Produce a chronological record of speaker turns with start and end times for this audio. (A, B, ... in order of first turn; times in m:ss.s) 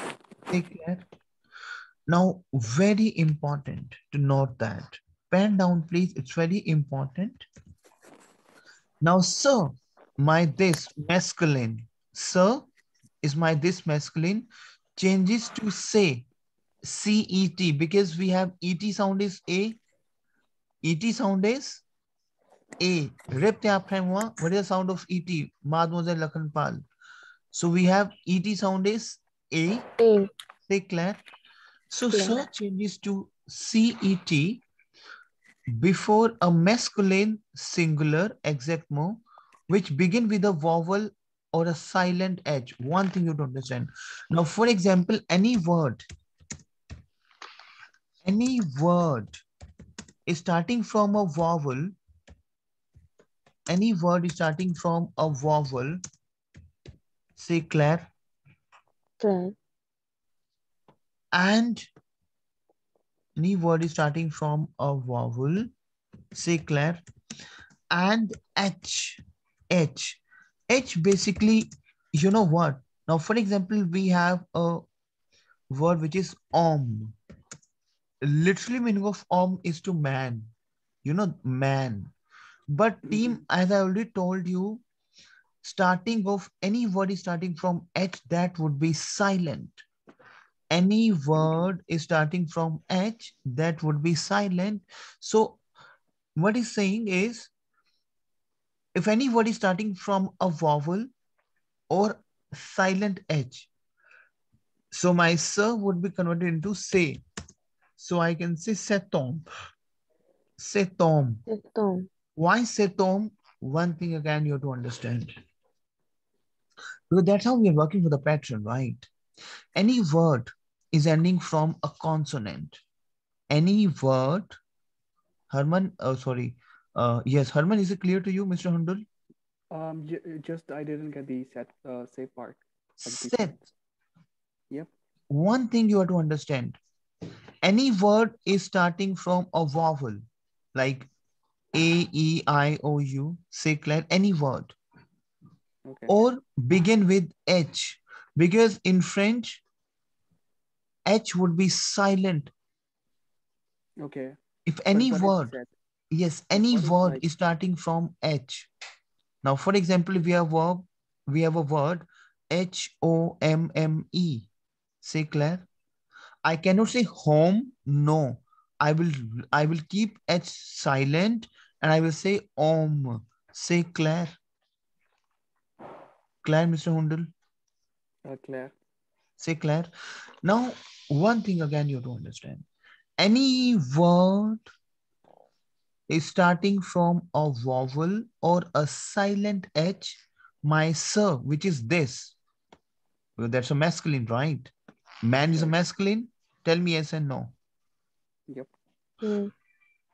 0:00.5-0:01.0 A
0:02.1-0:07.4 A
0:09.0-0:12.7 A
0:13.2-0:16.3 A
0:16.8-0:19.8 A
0:20.8-0:21.8 A
0:22.8-0:26.8 A
0:27.5-0:29.9 A
0:30.0-0:30.3 B
0:30.7-0:31.2 A
0:31.9-0:34.6 A
0:32.1-0:32.4 B
0:35.7-0:46.0 A
0:48.2-0:49.4 A
0:50.3-0:51.9 A
0:53.7-0:56.0 A
0:57.4-0:58.1 A
0:59.2-0:59.6 B
1:01.3-1:01.9 A
1:03.4-1:05.7 A
1:06.3-1:07.0 A
1:07.9-1:14.8 A
1:15.7-1:17.2 A
1:18.2-1:20.5 A
1:21.0-1:22.1 A
1:22.7-1:24.8 A
1:23.1-1:23.4 C
1:25.6-1:29.8 A
1:30.7-1:35.6 A
1:36.4-1:37.5 A
1:39.0-1:41.1 A
1:41.9-1:43.7 A
1:44.9-1:47.2 A
1:48.0-1:49.5 A
1:50.6-1:51.4 A
1:51.5-1:52.1 B
1:52.4-1:55.3 A
1:57.1-1:59.1 A
1:59.8-2:02.8 A
2:03.5-2:04.6 A
2:05.5-2:09.0 A
2:09.7-2:13.7 C
2:13.0-2:13.6 A
2:15.3-2:16.8 A
2:17.6-2:20.2 A
2:20.8-2:21.1 A
2:21.7-2:24.8 A
2:25.9-2:26.1 C
2:26.1-2:29.6 A
2:31.1-2:32.5 A
2:34.0-2:34.4 C
2:34.7-2:35.6 A
2:34.9-2:35.7 C
2:36.1-2:38.7 A
2:36.6-2:37.2 C
2:39.4-2:44.5 A
2:45.0-2:45.7 A
2:46.4-2:54.4 A
2:56.4-2:57.3 A
2:58.2-2:58.7 C
2:59.4-2:59.9 A
3:00.4-3:02.6 A
3:03.2-3:04.6 A
3:06.1-3:12.4 A
3:13.4-3:14.7 A
3:15.2-3:17.6 A
3:19.2-3:19.5 B